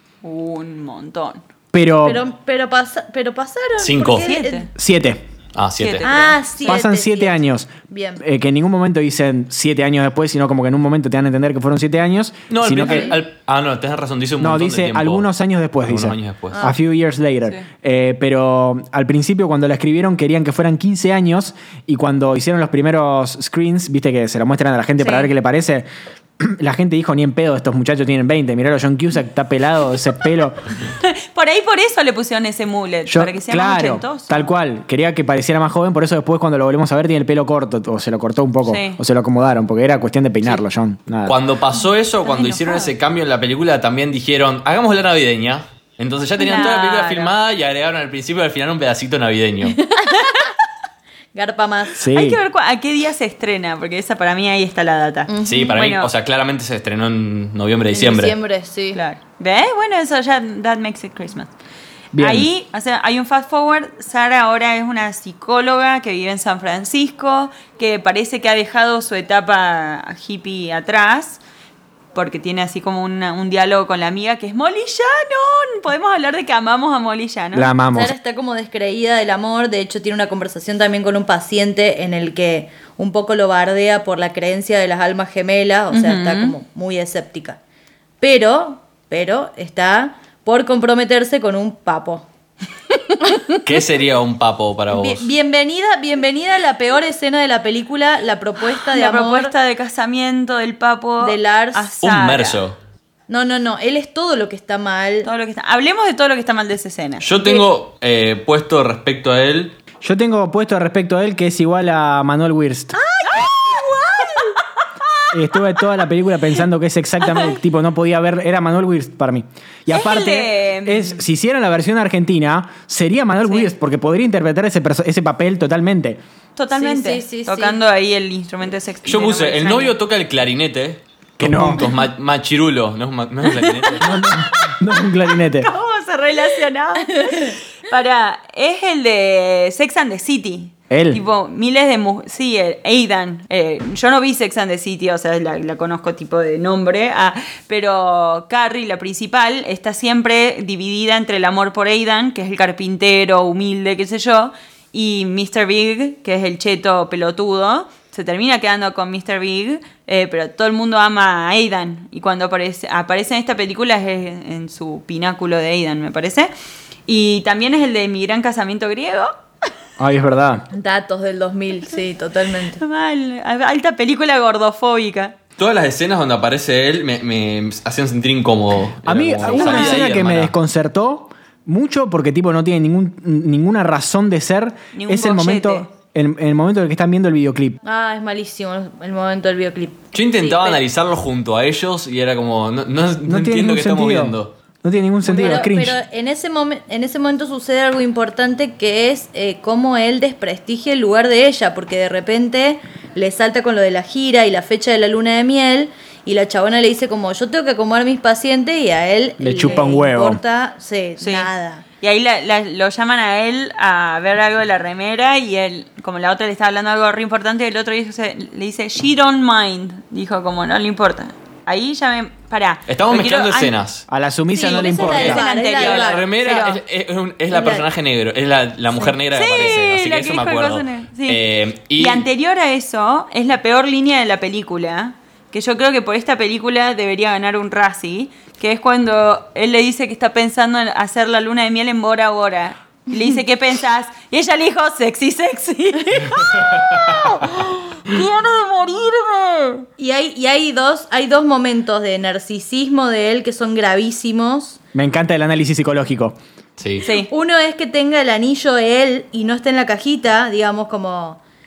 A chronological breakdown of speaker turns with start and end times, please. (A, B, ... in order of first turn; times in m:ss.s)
0:00.2-0:01.4 A
0:01.7-0:02.2 B
0:02.0-0:04.7 C
0:03.8-0:04.3 D
0:04.1-0:04.7 A
0:04.7-0:05.2 B
0:05.5-0:06.1 D
0:05.8-0:06.7 A
0:06.0-0:08.2 C
0:06.6-0:13.2 B
0:12.5-0:15.3 D
0:14.4-0:25.8 B
0:15.8-0:16.6 D
0:25.0-0:25.3 A
0:26.4-0:30.6 B
0:31.0-0:34.4 A
0:33.1-0:41.4 B
0:38.6-0:39.0 A
0:41.2-0:49.8 D
0:46.4-0:47.3 A
0:49.7-0:50.5 C
0:51.3-0:52.0 C
0:52.0-0:52.4 B
0:52.1-0:56.1 A
0:55.3-0:55.7 C
0:55.4-0:58.4 D
0:57.9-0:59.0 C
0:58.9-1:01.5 A
1:02.1-1:02.5 B
1:02.2-1:11.4 A
1:12.1-1:17.7 A
1:17.5-1:18.1 B
1:17.9-1:27.6 C
1:25.9-1:26.5 A
1:28.2-1:32.2 C
1:33.6-1:35.3 D
1:34.9-1:39.5 C
1:38.9-1:42.6 A
1:41.2-1:41.9 C
1:42.0-1:42.8 D
1:43.3-1:45.3 C
1:45.2-1:47.3 A
1:47.2-1:49.8 D
1:50.0-1:53.0 B
1:53.0-1:54.6 C
1:53.2-1:53.8 A
1:55.3-2:06.2 B
1:59.9-2:01.2 A
2:03.4-2:03.7 A
2:06.6-2:09.9 A
2:06.7-2:07.8 C
2:09.0-2:14.1 D
2:11.4-2:11.8 B
2:13.6-2:14.8 A
2:14.0-2:15.7 B
2:15.5-2:46.5 A
2:17.1-2:17.5 C
2:20.9-2:21.2 B
2:47.1-2:49.3 A
2:50.0-2:50.6 B
2:50.7-2:52.8 C
2:52.8-2:55.3 A
2:55.6-3:00.5 D
2:59.0-3:07.8 B
2:59.5-3:00.0 A
3:04.9-3:05.9 A
3:07.8-3:10.8 C
3:10.1-3:14.5 D
3:13.2-3:16.0 B
3:15.2-3:31.8 C
3:29.4-3:30.4 B
3:31.2-3:31.5 A
3:32.0-3:43.7 A
3:42.9-3:44.0 D
3:44.1-3:45.4 B
3:44.5-3:46.3 C
3:44.6-3:46.8 A
3:45.0-3:52.2 D
3:47.5-3:47.8 C
3:49.3-3:51.4 A
3:51.9-4:06.8 A
4:06.8-4:07.0 D
4:08.1-4:08.6 C
4:08.1-4:09.7 A
4:10.0-4:14.8 C
4:14.9-4:16.4 B
4:16.8-4:17.0 D
4:17.0-4:17.3 A
4:17.3-4:21.4 C